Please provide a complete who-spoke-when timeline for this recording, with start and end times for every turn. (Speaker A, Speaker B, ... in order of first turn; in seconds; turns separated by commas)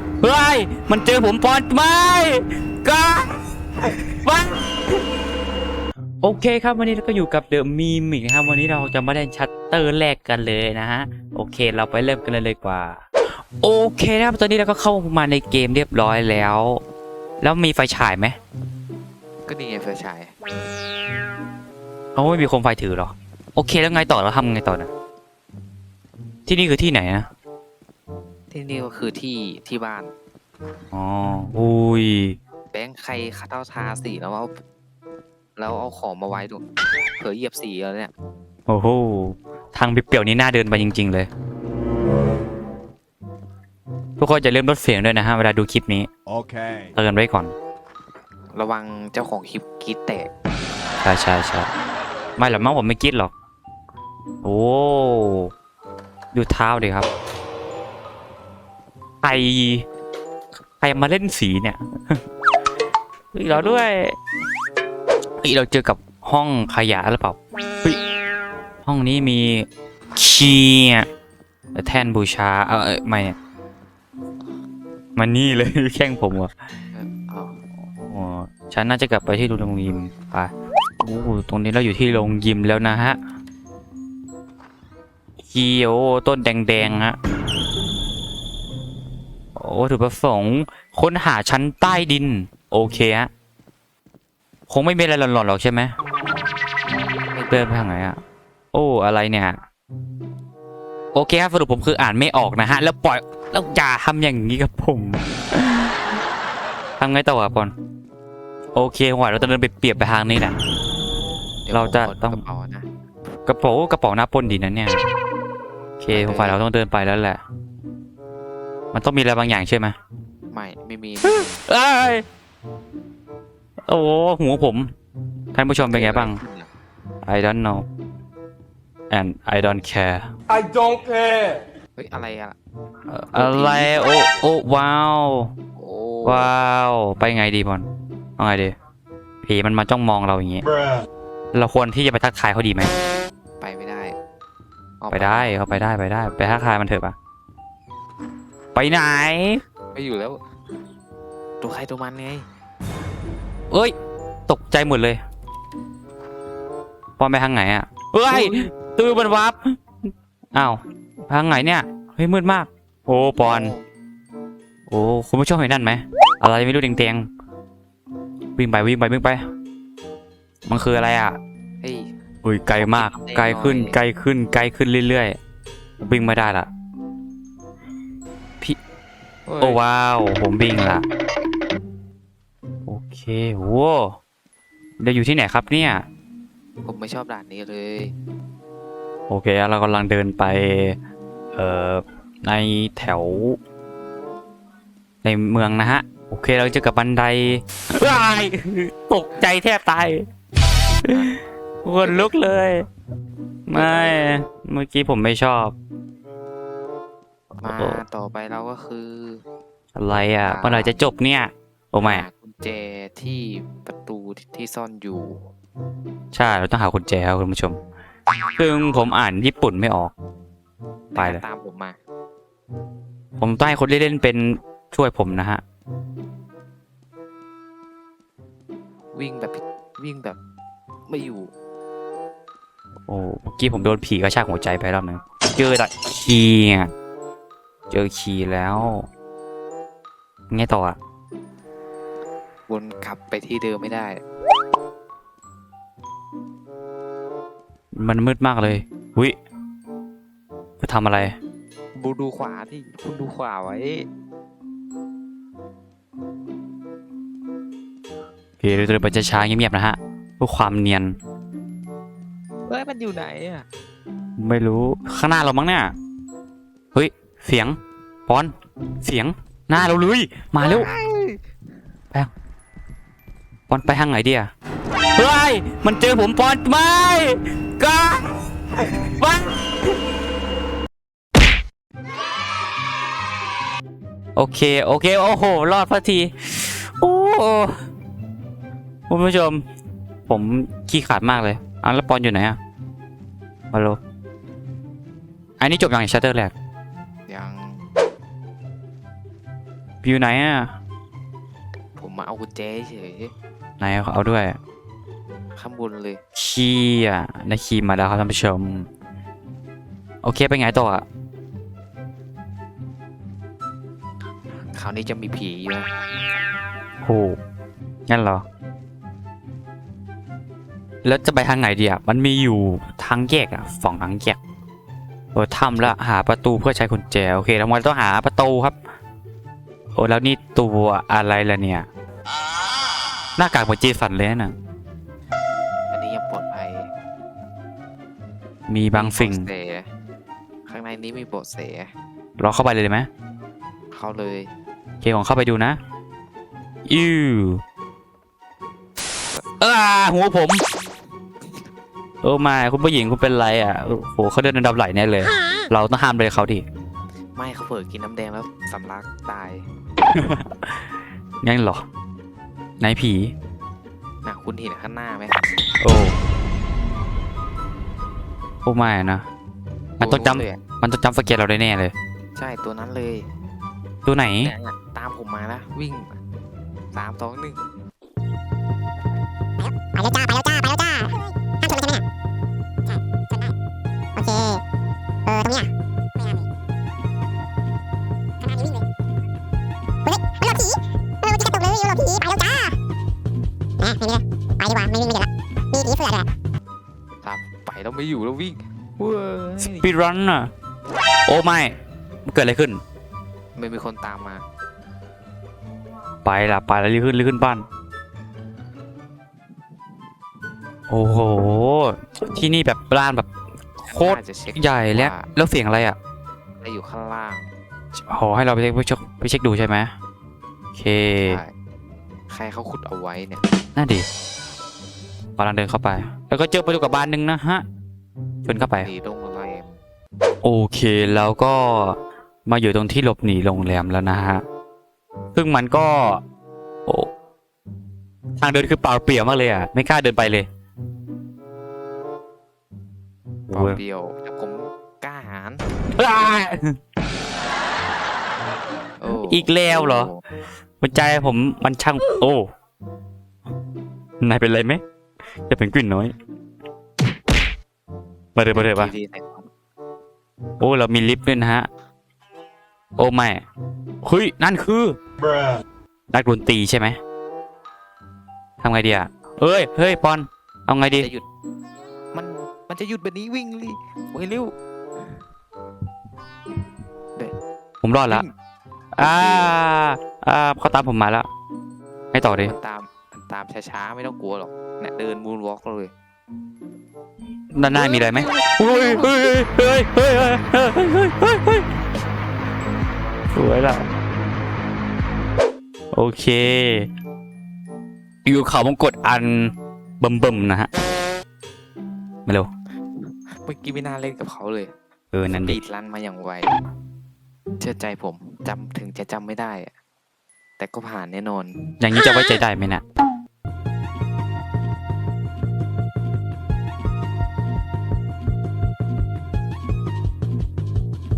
Speaker A: 0.2-5.0, Speaker A: 6.2-13.0, Speaker A: 13.6-16.8, Speaker A: 17.4-18.4, Speaker B: 19.5-20.3, Speaker A: 22.1-24.9, Speaker A: 26.5-27.3, Speaker B: 28.5-30.1, Speaker A: 30.9-32.4, Speaker B: 32.7-34.6, Speaker B: 35.6-36.7, Speaker B: 37.2-38.1, Speaker A: 38.7-41.3, Speaker A: 44.2-46.1, Speaker A: 47.0-47.5, Speaker B: 48.5-50.3, Speaker A: 51.0-51.7, Speaker A: 52.4-53.3, Speaker A: 54.4-55.5, Speaker A: 56.3-57.1, Speaker A: 59.2-59.9, Speaker A: 60.8-62.2, Speaker A: 63.3-64.2, Speaker B: 63.5-63.9, Speaker A: 65.4-68.0, Speaker A: 68.8-71.1, Speaker A: 71.8-73.4, Speaker A: 75.2-76.5, Speaker B: 76.9-77.6, Speaker A: 77.9-83.2, Speaker A: 85.5-87.2, Speaker A: 89.6-93.3, Speaker A: 94.7-95.9, Speaker B: 97.3-97.7, Speaker A: 97.5-98.2, Speaker A: 98.7-99.6, Speaker A: 101.1-105.9, Speaker A: 107.0-107.7, Speaker A: 108.8-110.6, Speaker B: 111.7-112.9, Speaker A: 111.7-112.4, Speaker A: 113.5-115.0, Speaker A: 116.0-117.4, Speaker B: 116.1-116.6, Speaker A: 118.9-120.0, Speaker B: 120.5-121.5, Speaker A: 121.2-122.2, Speaker A: 123.9-124.9, Speaker A: 125.5-126.4, Speaker B: 125.9-126.7, Speaker A: 127.2-127.9, Speaker A: 129.1-130.3, Speaker B: 132.0-132.6, Speaker A: 133.1-135.5, Speaker B: 133.3-134.1, Speaker B: 135.8-136.5, Speaker A: 136.2-137.9, Speaker A: 138.4-138.7, Speaker A: 139.4-140.7, Speaker A: 141.5-142.9, Speaker B: 143.6-144.2, Speaker B: 145.0-145.6, Speaker A: 145.1-147.2, Speaker A: 148.8-149.6, Speaker B: 149.9-150.4, Speaker B: 151.6-152.5, Speaker A: 154.5-155.2, Speaker A: 157.2-159.8, Speaker B: 158.3-158.7, Speaker A: 160.5-163.7, Speaker B: 163.4-163.9, Speaker A: 164.9-167.3, Speaker A: 168.6-169.4, Speaker A: 170.7-171.4, Speaker B: 171.8-172.1, Speaker A: 172.4-175.4, Speaker B: 172.8-174.0, Speaker A: 176.0-176.7, Speaker B: 179.5-179.8, Speaker A: 179.6-181.1, Speaker A: 182.9-184.2, Speaker A: 185.0-186.1, Speaker B: 186.8-188.2, Speaker A: 189.3-191.0, Speaker A: 191.6-193.6, Speaker A: 195.2-200.3, Speaker B: 201.1-201.3, Speaker A: 201.8-202.9, Speaker A: 203.7-205.8, Speaker B: 203.7-204.4, Speaker B: 207.6-209.4, Speaker A: 207.7-208.0, Speaker A: 210.0-212.3, Speaker B: 210.4-211.0, Speaker B: 212.0-215.4, Speaker A: 216.3-217.8, Speaker A: 218.6-220.1, Speaker B: 221.1-222.0, Speaker A: 221.2-221.4, Speaker A: 223.4-225.6, Speaker B: 229.1-230.4, Speaker B: 231.1-231.5, Speaker A: 233.1-236.9, Speaker A: 237.9-239.1, Speaker A: 240.5-241.0, Speaker B: 242.7-244.2, Speaker A: 247.9-249.4, Speaker A: 250.8-251.4, Speaker B: 252.0-254.1, Speaker A: 258.6-261.2, Speaker B: 262.7-263.7, Speaker A: 264.4-265.9, Speaker A: 266.9-270.9, Speaker B: 270.6-271.4, Speaker A: 273.7-274.5, Speaker A: 275.1-279.9, Speaker A: 284.4-287.8, Speaker A: 289.1-289.6, Speaker A: 290.3-292.6, Speaker A: 293.7-294.0, Speaker A: 295.6-296.5, Speaker B: 297.3-297.8, Speaker A: 300.0-300.8, Speaker B: 302.0-303.3, Speaker A: 303.8-304.6, Speaker B: 305.6-306.2, Speaker A: 306.4-308.9, Speaker A: 310.2-311.1, Speaker B: 314.7-315.9, Speaker A: 317.0-317.4, Speaker A: 318.1-318.4, Speaker A: 321.0-324.4, Speaker A: 325.4-328.8, Speaker A: 329.9-331.9, Speaker A: 333.4-334.6, Speaker B: 335.9-336.9, Speaker A: 338.7-339.5, Speaker B: 338.9-339.9, Speaker B: 340.7-341.9, Speaker A: 342.4-343.1, Speaker B: 343.9-344.5, Speaker A: 345.0-345.8, Speaker A: 346.9-347.6, Speaker A: 349.6-350.6, Speaker A: 352.2-356.6, Speaker B: 357.4-359.6, Speaker A: 360.1-360.8, Speaker A: 361.4-361.8, Speaker A: 362.8-363.3, Speaker B: 364.2-365.4, Speaker A: 365.8-366.1, Speaker A: 368.6-369.3, Speaker B: 370.0-370.6, Speaker A: 370.0-371.9, Speaker B: 372.4-373.3, Speaker A: 374.1-374.5, Speaker B: 374.4-376.2, Speaker B: 376.9-377.6, Speaker C: 379.6-382.0, Speaker C: 382.9-383.5, Speaker C: 384.2-384.6, Speaker C: 385.3-386.4, Speaker C: 388.4-388.9, Speaker C: 390.1-392.8, Speaker C: 393.8-396.3, Speaker B: 397.2-399.9, Speaker A: 399.6-400.5, Speaker A: 401.3-402.8, Speaker B: 403.6-404.4, Speaker A: 406.2-407.6, Speaker A: 410.9-413.3, Speaker A: 413.8-416.0, Speaker B: 413.9-415.3, Speaker B: 416.6-417.5, Speaker A: 418.1-419.9, Speaker A: 420.7-421.4, Speaker B: 421.3-421.5, Speaker B: 422.3-423.4, Speaker A: 423.8-424.1, Speaker A: 425.4-427.6, Speaker A: 428.4-428.9, Speaker B: 428.8-429.7, Speaker A: 430.4-434.4, Speaker A: 435.4-436.2, Speaker A: 438.4-440.5, Speaker A: 443.5-443.8, Speaker B: 443.5-445.6, Speaker A: 445.9-446.8, Speaker B: 449.0-450.2, Speaker A: 449.2-450.1, Speaker A: 450.8-452.5, Speaker A: 454.2-454.8, Speaker A: 455.5-456.1, Speaker A: 458.4-458.9, Speaker B: 458.5-459.5, Speaker A: 460.6-461.7, Speaker A: 463.0-463.4, Speaker A: 464.0-465.0, Speaker A: 466.1-467.0, Speaker A: 468.6-471.1, Speaker B: 470.9-471.3, Speaker B: 472.1-474.6, Speaker A: 477.8-478.2, Speaker A: 479.0-481.3, Speaker B: 479.0-479.6, Speaker A: 482.1-482.5, Speaker B: 482.4-485.9, Speaker A: 487.5-491.7, Speaker A: 493.4-493.8, Speaker A: 495.9-496.9, Speaker A: 498.2-500.7, Speaker B: 503.4-504.7, Speaker A: 505.1-505.6, Speaker B: 505.3-506.5, Speaker B: 507.6-509.7, Speaker B: 510.6-511.6, Speaker A: 511.8-512.8